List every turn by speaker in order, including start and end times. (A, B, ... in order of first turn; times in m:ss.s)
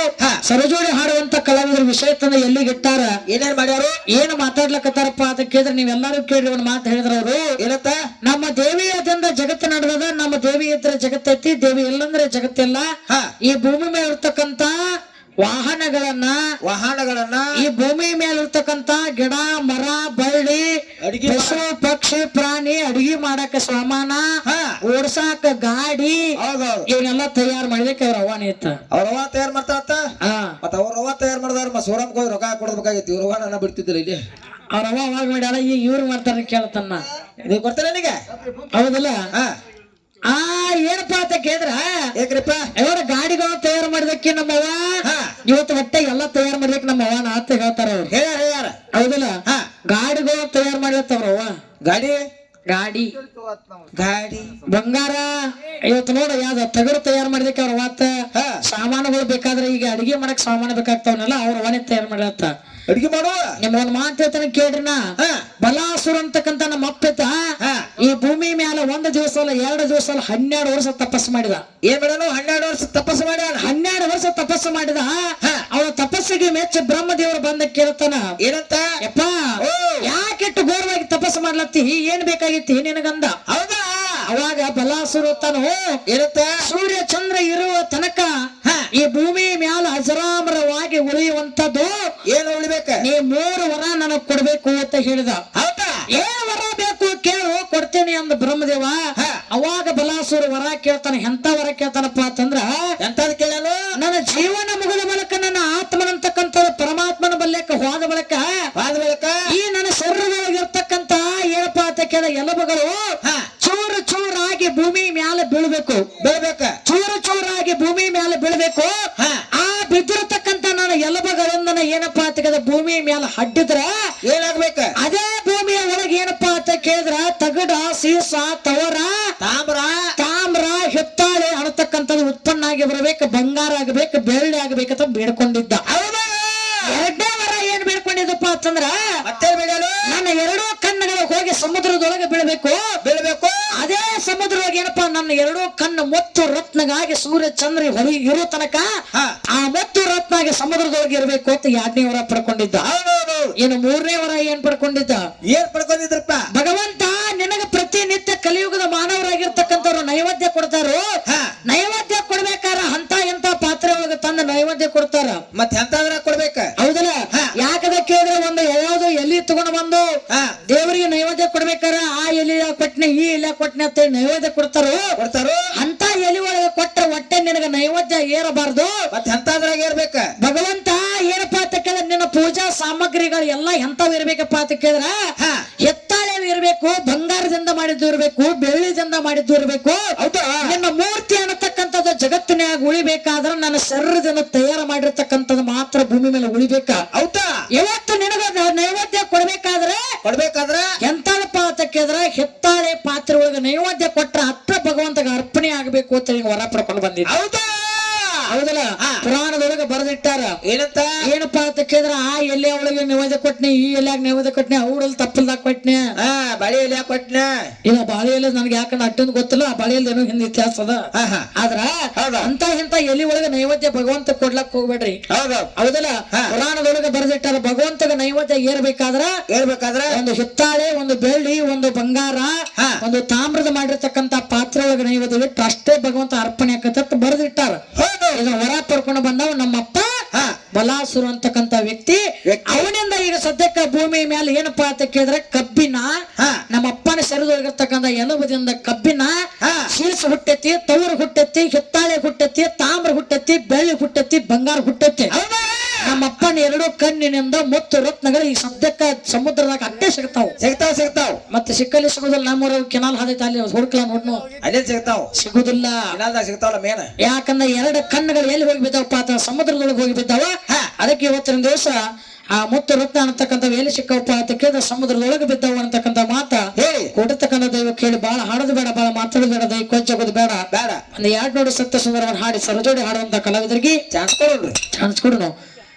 0:00.4-0:03.1 A
0:03.3-0:04.0 B
0:04.1-0:07.4 A
0:07.6-0:08.0 B
0:08.2-0:12.8 A
0:13.4-0:14.7 A
0:15.4-0:16.4 A
0:16.6-0:17.5 B
0:17.6-0:20.7 A
0:21.0-0:21.6 B
0:21.2-0:24.2 A
0:24.4-0:24.8 B
0:24.8-0:26.3 A
0:26.4-0:26.8 B
0:26.9-0:28.8 A
0:28.9-0:30.0 B
0:30.2-0:30.6 A
0:30.6-0:34.2 B
0:34.7-0:37.0 A
0:37.4-0:38.2 B
0:38.7-0:39.1 A
0:40.3-0:41.8 A
0:42.2-0:42.6 B
0:42.8-0:48.1 A
0:45.0-0:45.3 B
0:48.1-0:48.8 B
0:48.9-0:49.4 A
0:49.9-0:51.5 A
0:51.8-0:52.2 B
0:52.7-0:53.1 A
0:53.9-0:54.6 B
0:54.7-0:58.1 A
0:58.3-0:58.6 B
0:58.6-1:02.5 A
1:02.9-1:03.5 B
1:03.6-1:05.0 A
1:05.2-1:05.4 B
1:05.6-1:07.4 A
1:07.6-1:07.9 B
1:08.0-1:11.6 A
1:11.8-1:13.7 B
1:13.6-1:15.1 A
1:15.7-1:18.2 A
1:18.4-1:18.9 B
1:19.0-1:19.3 A
1:19.6-1:20.1 B
1:20.0-1:23.4 A
1:23.5-1:24.2 B
1:24.3-1:25.9 A
1:26.1-1:26.5 B
1:26.6-1:28.3 A
1:28.9-1:31.9 A
1:32.3-1:33.0 B
1:33.0-1:35.4 A
1:35.5-1:36.0 B
1:36.1-1:39.0 A
1:39.5-1:42.6 A
1:43.0-1:43.8 B
1:44.0-1:48.4 A
1:48.8-1:49.4 B
1:49.5-1:53.0 A
1:53.6-1:56.0 A
1:56.2-1:56.7 B
1:56.8-1:58.9 A
1:59.2-1:59.4 B
1:59.6-2:03.9 A
2:04.3-2:04.9 B
2:05.0-2:09.1 A
2:09.4-2:10.0 B
2:10.2-2:15.8 A
2:15.9-2:16.9 B
2:16.9-2:18.9 A
2:19.2-2:20.0 B
2:20.1-2:22.8 A
2:23.0-2:23.6 B
2:23.8-2:28.9 A
2:29.5-2:32.8 A
2:32.8-2:33.5 B
2:33.6-2:35.2 A
2:35.5-2:36.4 B
2:36.5-2:41.0 A
2:41.7-2:45.4 A
2:45.5-2:46.7 B
2:46.8-2:50.0 A
2:50.3-2:50.5 B
2:50.7-2:55.0 A
2:55.2-2:55.6 B
2:55.8-2:58.9 A
2:59.1-3:00.2 B
3:00.4-3:05.1 A
3:05.4-3:05.6 B
3:05.8-3:10.0 A
3:10.2-3:10.6 B
3:10.6-3:17.0 A
3:17.1-3:17.5 B
3:17.8-3:20.0 A
3:20.2-3:20.9 B
3:21.0-3:27.3 A
3:27.3-3:28.4 B
3:28.5-3:30.6 A
3:30.7-3:31.1 B
3:31.2-3:36.0 A
3:36.2-3:37.5 B
3:37.9-3:45.2 A
3:41.1-3:41.5 B
3:42.2-3:42.5 B
3:45.3-3:45.7 B
3:45.8-3:49.3 A
3:49.5-3:50.1 B
3:50.1-3:57.8 A
3:57.9-3:58.4 B
3:58.4-4:00.1 A
4:00.7-4:06.1 A
4:02.4-4:02.9 B
4:06.7-4:09.3 A
4:09.6-4:09.9 B
4:09.9-4:15.3 A
4:15.3-4:16.3 B
4:16.0-4:20.6 A
4:20.6-4:21.4 B
4:21.5-4:24.4 A
4:24.6-4:25.3 B
4:25.4-4:26.1 A
4:26.1-4:27.1 B
4:27.2-4:32.0 A
4:32.5-4:40.6 A
4:36.8-4:37.1 B
4:40.7-4:41.0 B
4:41.1-4:44.0 A
4:44.1-4:44.8 B
4:44.9-4:45.5 A